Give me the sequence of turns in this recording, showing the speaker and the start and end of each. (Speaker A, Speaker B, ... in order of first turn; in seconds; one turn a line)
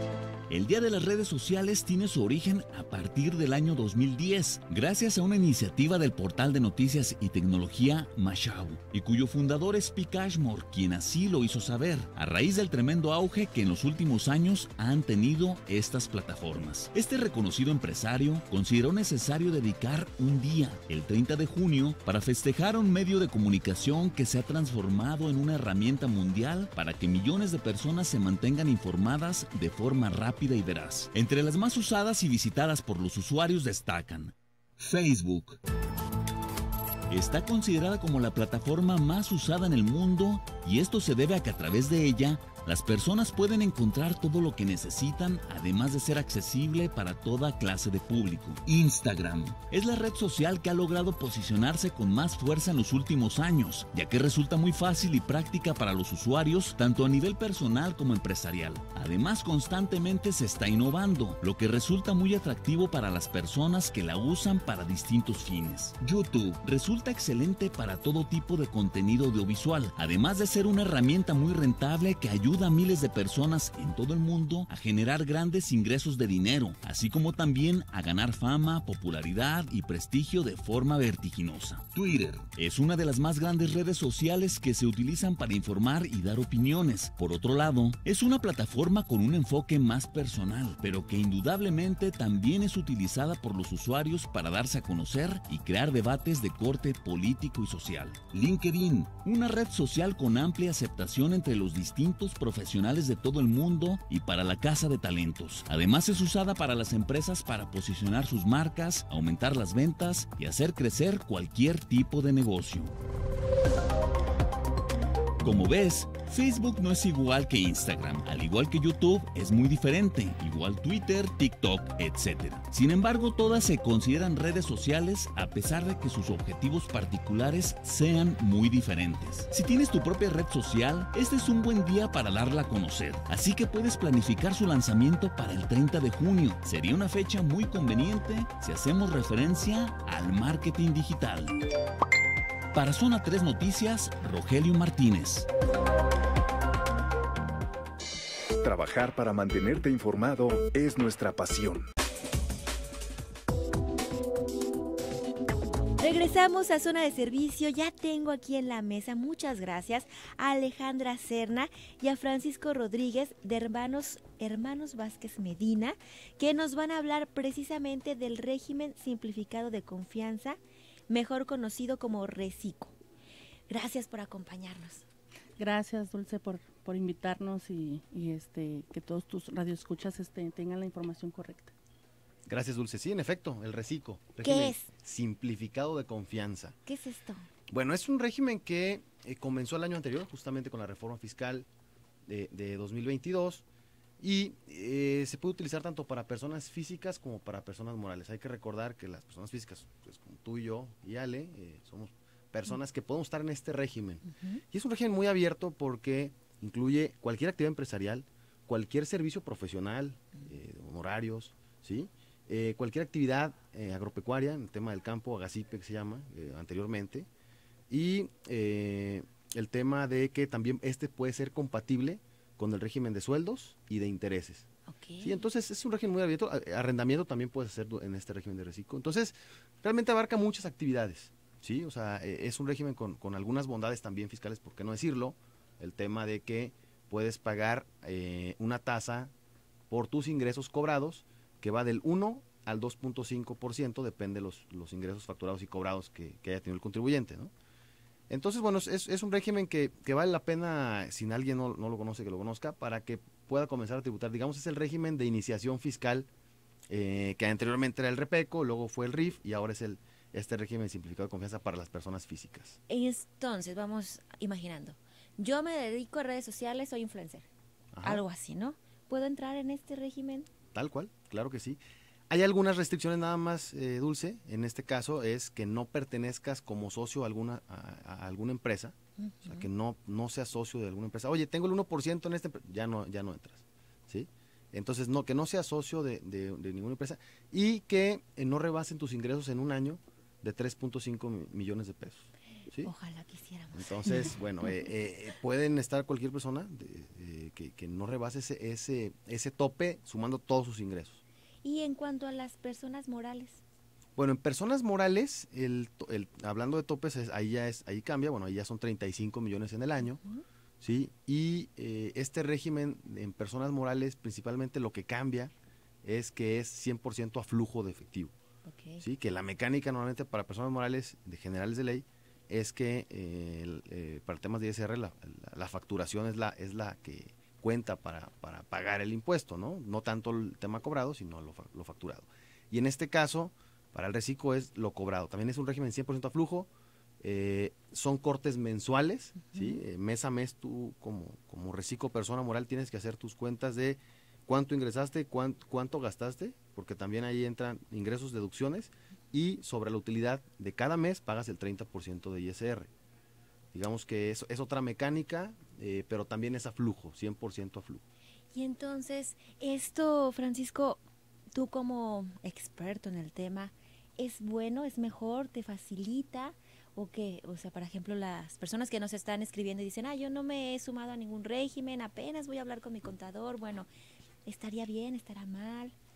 Speaker A: 0.5-35.6
Speaker A: 37.1-112.9
Speaker A: 115.4-141.6
Speaker A: 142.7-145.5
Speaker B: 148.6-151.8
Speaker C: 156.0-170.6
Speaker C: 171.1-172.9
Speaker C: 173.7-175.0
Speaker D: 175.6-181.7
Speaker E: 182.5-186.8
Speaker C: 184.4-184.9
Speaker C: 186.8-187.5
Speaker E: 187.7-191.7
Speaker E: 192.2-193.6
Speaker E: 194.2-217.3
Speaker C: 204.3-204.6
Speaker E: 217.9-224.7
Speaker C: 224.9-225.4
Speaker E: 225.2-239.3
Speaker E: 239.9-247.5
Speaker E: 248.3-256.3
Speaker E: 256.9-262.8
Speaker C: 262.9-267.5
Speaker E: 267.9-268.2
Speaker C: 268.0-270.5
Speaker E: 270.7-292.9
Speaker C: 279.2-279.6
Speaker C: 292.8-294.3
Speaker E: 293.7-301.2
Speaker C: 301.6-303.6
Speaker E: 304.1-310.2
Speaker E: 310.8-315.5
Speaker E: 316.0-318.3
Speaker C: 318.6-319.0
Speaker E: 319.0-336.7
Speaker E: 337.2-352.9
Speaker C: 339.5-339.8
Speaker E: 353.7-358.0
Speaker C: 358.5-361.0
Speaker C: 361.5-373.9
Speaker C: 374.4-375.9